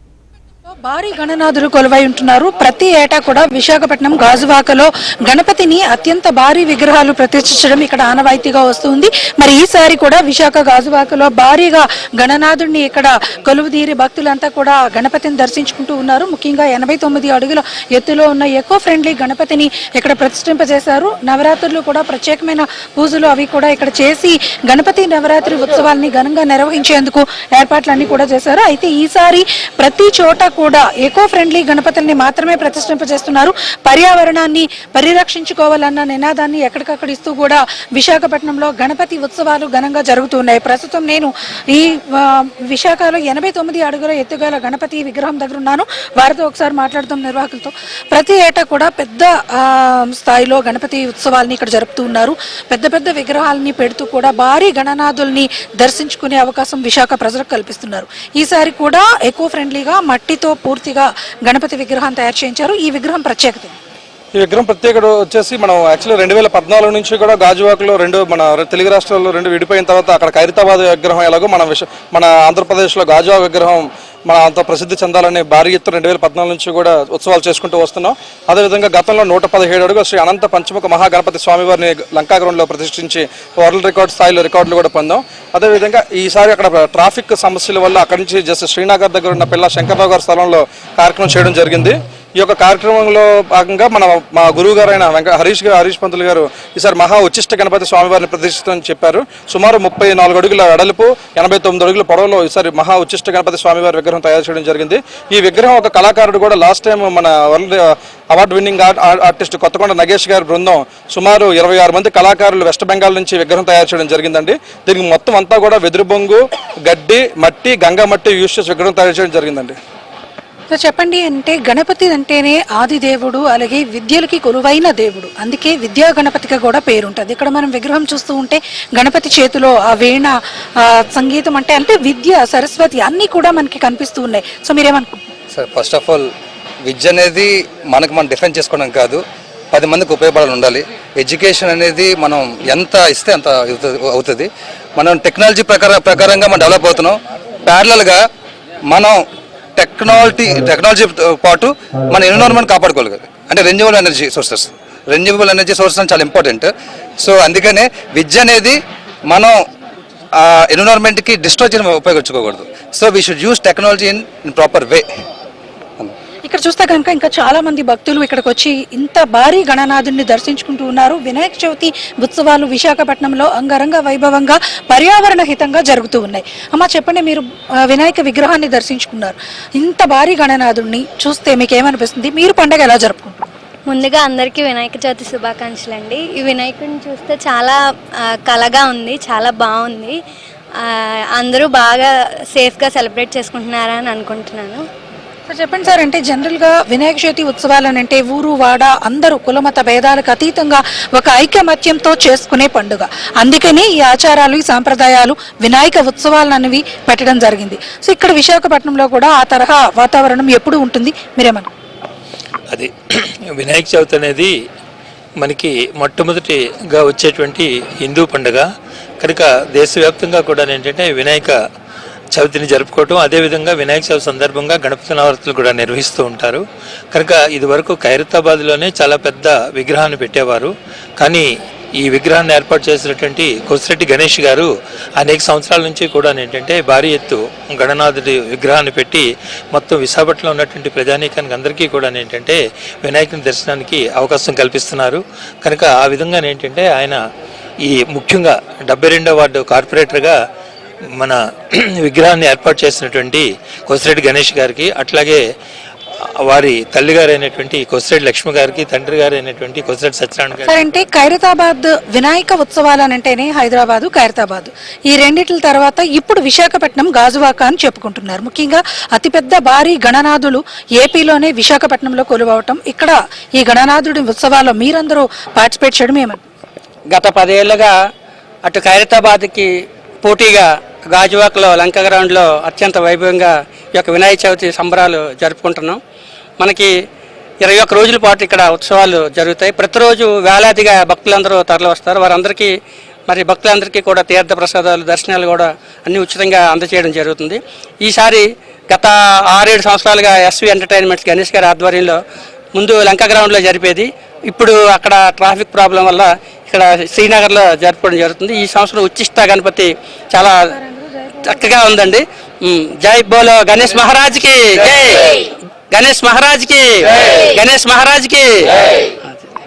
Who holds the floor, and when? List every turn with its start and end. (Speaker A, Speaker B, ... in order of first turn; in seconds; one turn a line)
Speaker A: 0.8-63.8
Speaker B: 64.3-119.8
Speaker A: 120.7-135.2
Speaker C: 135.5-136.3
Speaker C: 136.8-139.2
Speaker C: 139.7-148.2
Speaker C: 148.9-149.2
Speaker C: 149.8-159.5
Speaker C: 160.4-165.1
Speaker A: 166.4-183.4
Speaker D: 183.9-190.2
Speaker D: 190.8-194.8
Speaker A: 195.5-211.7
Speaker E: 212.7-214.5
Speaker E: 215.4-218.6
Speaker E: 219.2-221.6
Speaker E: 222.3-231.4
Speaker E: 232.0-247.2
Speaker E: 247.8-250.4
Speaker E: 251.2-255.4
Speaker E: 256.4-260.7
Speaker A: 260.6-276.4
Speaker F: 277.1-278.1
Speaker F: 278.6-286.0
Speaker F: 286.6-287.0
Speaker F: 287.6-302.2
Speaker F: 302.7-310.7
Speaker A: 310.8-311.7
Speaker F: 311.4-319.4